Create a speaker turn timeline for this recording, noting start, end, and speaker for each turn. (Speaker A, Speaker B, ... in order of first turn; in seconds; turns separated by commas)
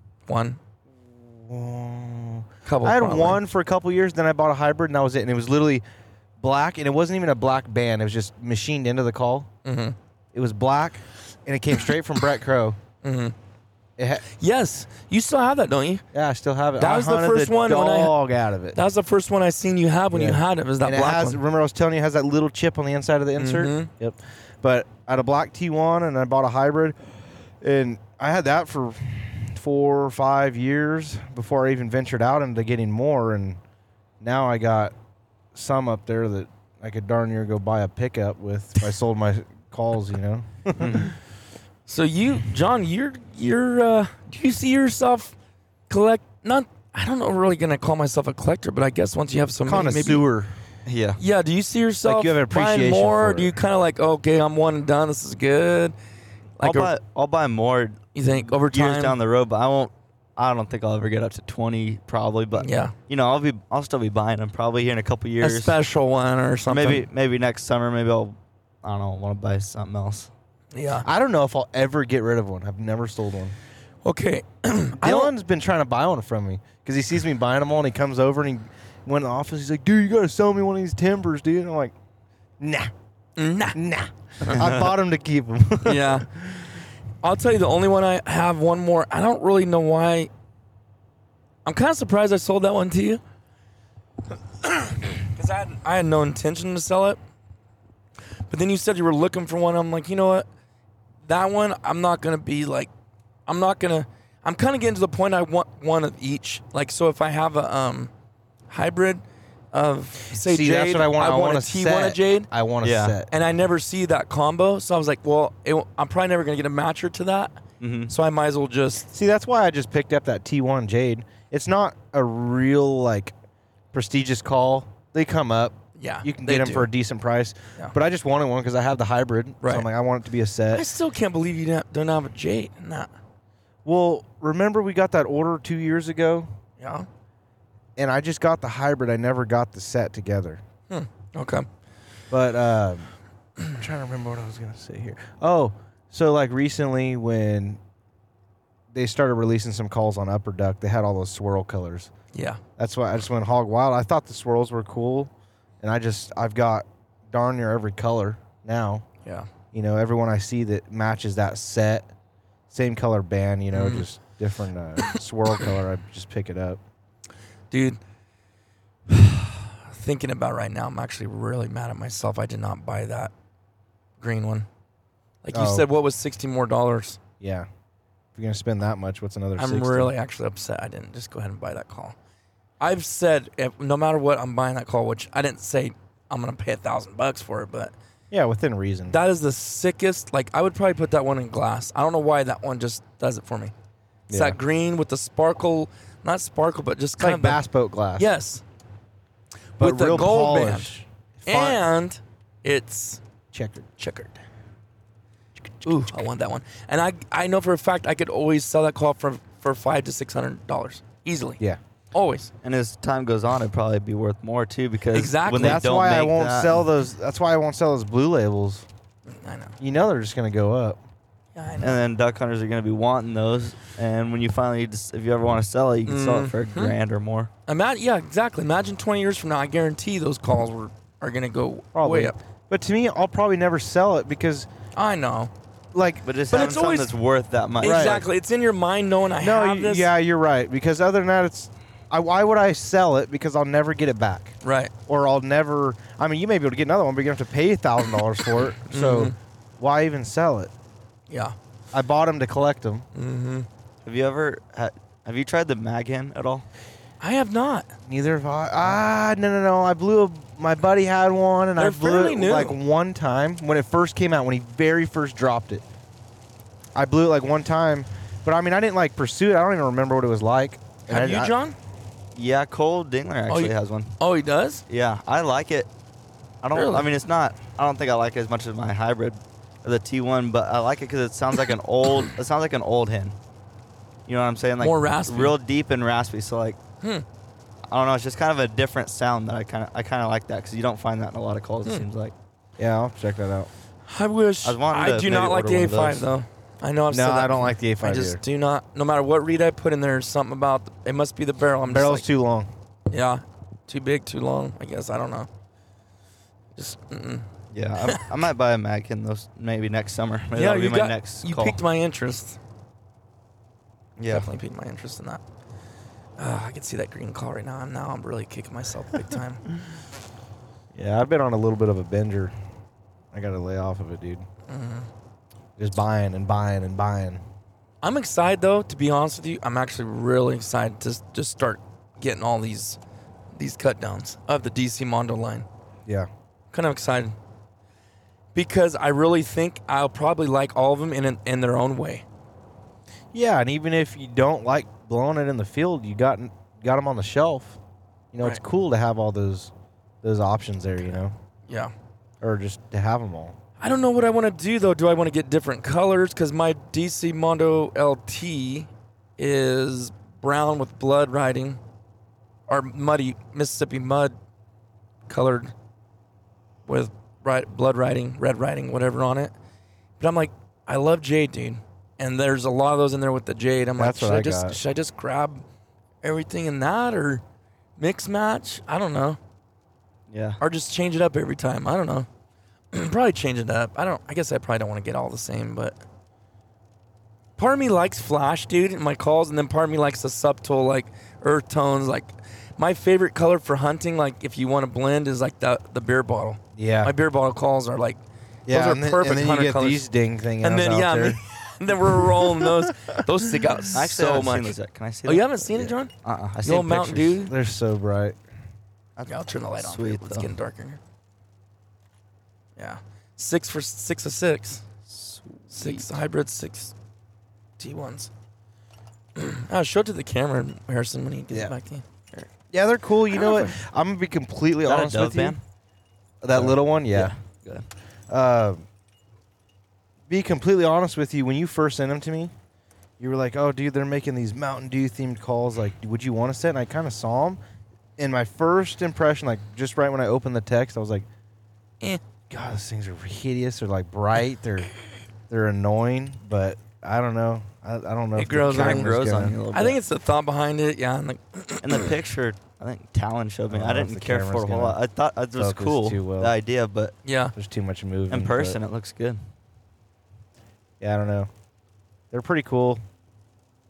Speaker A: 0.3-0.6, Speaker B: 1.3-5.8, Speaker A: 2.7-3.4, Speaker B: 6.4-9.5, Speaker A: 9.7-10.0, Speaker B: 10.3-12.8, Speaker A: 13.0-13.3, Speaker B: 14.0-14.2, Speaker A: 14.3-16.0, Speaker B: 16.1-18.8, Speaker A: 16.8-18.1, Speaker A: 18.8-21.4, Speaker B: 20.1-27.0, Speaker A: 23.4-23.9, Speaker B: 27.6-33.6, Speaker B: 34.2-34.9, Speaker B: 35.5-41.1, Speaker A: 41.9-45.4, Speaker A: 45.9-50.2, Speaker B: 49.7-50.5, Speaker C: 50.9-51.2, Speaker A: 51.2-56.0, Speaker B: 52.0-53.6, Speaker C: 56.6-65.8, Speaker A: 56.6-56.9, Speaker A: 58.1-59.2, Speaker A: 62.5-62.9, Speaker A: 65.4-67.1, Speaker C: 66.7-70.3, Speaker A: 70.7-71.1, Speaker B: 71.0-73.6, Speaker A: 74.0-75.3, Speaker B: 75.0-81.9, Speaker B: 82.6-82.9, Speaker A: 83.4-83.8, Speaker B: 83.7-86.8, Speaker A: 85.8-86.3, Speaker A: 87.2-90.3, Speaker A: 91.7-93.2, Speaker A: 94.6-97.2, Speaker A: 98.5-100.5, Speaker A: 101.3-102.9, Speaker A: 103.5-108.1, Speaker A: 108.7-112.5, Speaker B: 110.3-113.3, Speaker C: 112.8-113.2, Speaker A: 113.3-119.1, Speaker C: 117.8-118.1, Speaker B: 119.1-123.3, Speaker B: 123.9-130.9, Speaker A: 126.0-126.9, Speaker A: 129.6-129.9, Speaker A: 130.7-133.1, Speaker B: 133.8-136.5, Speaker A: 136.8-137.1, Speaker B: 138.0-140.6, Speaker A: 140.9-141.7, Speaker B: 142.3-143.1, Speaker B: 143.7-147.8, Speaker B: 148.9-152.1, Speaker A: 152.3-152.6, Speaker B: 152.8-159.1, Speaker B: 159.7-162.1, Speaker B: 162.7-166.8, Speaker A: 163.7-164.1, Speaker A: 167.7-168.0, Speaker A: 169.1-173.3, Speaker A: 174.2-174.7, Speaker A: 175.4-177.2, Speaker B: 175.5-175.9, Speaker B: 177.4-177.7, Speaker B: 178.3-180.1, Speaker A: 179.6-182.2, Speaker A: 182.8-187.9, Speaker B: 188.3-189.2, Speaker A: 189.1-193.7, Speaker B: 194.3-194.6, Speaker A: 194.3-197.6, Speaker B: 197.2-198.3, Speaker A: 198.2-198.6, Speaker A: 199.8-200.9, Speaker B: 199.8-201.8, Speaker A: 201.5-203.2, Speaker B: 203.5-203.9, Speaker A: 204.0-204.4, Speaker B: 205.6-206.1, Speaker A: 205.8-211.6, Speaker A: 212.1-212.5, Speaker C: 212.6-216.8, Speaker A: 215.1-215.9, Speaker B: 215.6-218.9, Speaker A: 219.3-219.8, Speaker B: 219.8-221.0, Speaker A: 221.6-222.0, Speaker C: 221.8-227.5, Speaker A: 226.1-226.9, Speaker A: 227.7-232.4, Speaker B: 231.9-234.7, Speaker A: 235.0-235.5, Speaker B: 235.9-236.3, Speaker C: 236.2-238.2, Speaker A: 236.5-237.1, Speaker A: 237.8-240.1, Speaker B: 237.8-238.2, Speaker B: 239.4-250.7, Speaker A: 244.6-244.9, Speaker A: 248.9-249.3, Speaker A: 251.3-251.6, Speaker B: 251.9-253.1, Speaker A: 253.2-253.7, Speaker C: 254.1-256.7, Speaker A: 257.2-257.9, Speaker B: 258.1-265.9, Speaker A: 261.8-262.8, Speaker B: 266.9-271.5, Speaker A: 271.1-271.8, Speaker C: 272.4-274.1, Speaker A: 273.5-274.8, Speaker C: 274.9-275.9, Speaker B: 276.6-277.0, Speaker A: 276.7-277.0, Speaker C: 276.8-283.4, Speaker C: 284.3-286.8, Speaker A: 284.8-285.6, Speaker C: 287.9-292.3, Speaker B: 292.8-293.7, Speaker A: 294.1-302.3, Speaker C: 294.6-296.3, Speaker B: 297.1-298.4, Speaker B: 301.9-302.7, Speaker A: 303.1-305.5, Speaker A: 306.8-307.5, Speaker C: 307.7-311.8, Speaker A: 310.6-312.6, Speaker C: 314.2-314.5, Speaker A: 314.3-315.4, Speaker A: 316.4-319.6, Speaker B: 320.9-322.5, Speaker B: 323.3-324.4, Speaker A: 324.7-325.1, Speaker B: 325.8-327.4, Speaker A: 328.0-333.0, Speaker A: 333.6-335.7, Speaker A: 336.7-337.4, Speaker A: 338.6-342.2, Speaker B: 343.3-347.8, Speaker B: 348.3-349.7, Speaker B: 350.2-351.4, Speaker A: 351.7-351.9, Speaker B: 352.4-353.6, Speaker A: 353.8-361.8, Speaker A: 362.7-364.3, Speaker A: 365.3-365.7, Speaker A: 366.9-369.5, Speaker A: 370.2-375.6, Speaker B: 374.0-374.8, Speaker A: 376.2-377.4, Speaker A: 378.0-379.4, Speaker C: 380.3-380.6, Speaker A: 380.6-382.3, Speaker A: 382.9-386.0, Speaker A: 387.6-400.1, Speaker B: 396.8-397.1, Speaker B: 398.7-401.4, Speaker A: 400.6-407.5, Speaker B: 402.0-402.9, Speaker C: 403.9-405.6, Speaker C: 406.2-407.4, Speaker B: 407.5-408.4, Speaker C: 409.2-410.5, Speaker A: 409.3-411.0, Speaker A: 412.8-414.9, Speaker C: 415.1-416.1, Speaker A: 415.7-416.9, Speaker A: 417.8-418.3, Speaker A: 419.4-422.5, Speaker B: 421.5-421.8, Speaker B: 422.7-425.6, Speaker C: 424.9-425.6, Speaker B: 426.4-427.4, Speaker C: 426.5-427.9, Speaker B: 428.3-428.9, Speaker B: 430.3-432.5, Speaker B: 433.2-437.6, Speaker B: 438.2-441.3, Speaker B: 442.5-444.9, Speaker B: 445.5-449.6, Speaker A: 448.4-449.1, Speaker C: 448.7-450.0, Speaker A: 449.7-452.0, Speaker C: 451.8-457.1, Speaker B: 453.7-455.0, Speaker B: 455.6-456.6, Speaker A: 457.2-457.5, Speaker B: 457.5-458.8, Speaker C: 458.3-459.4, Speaker B: 461.0-461.5, Speaker B: 462.3-463.0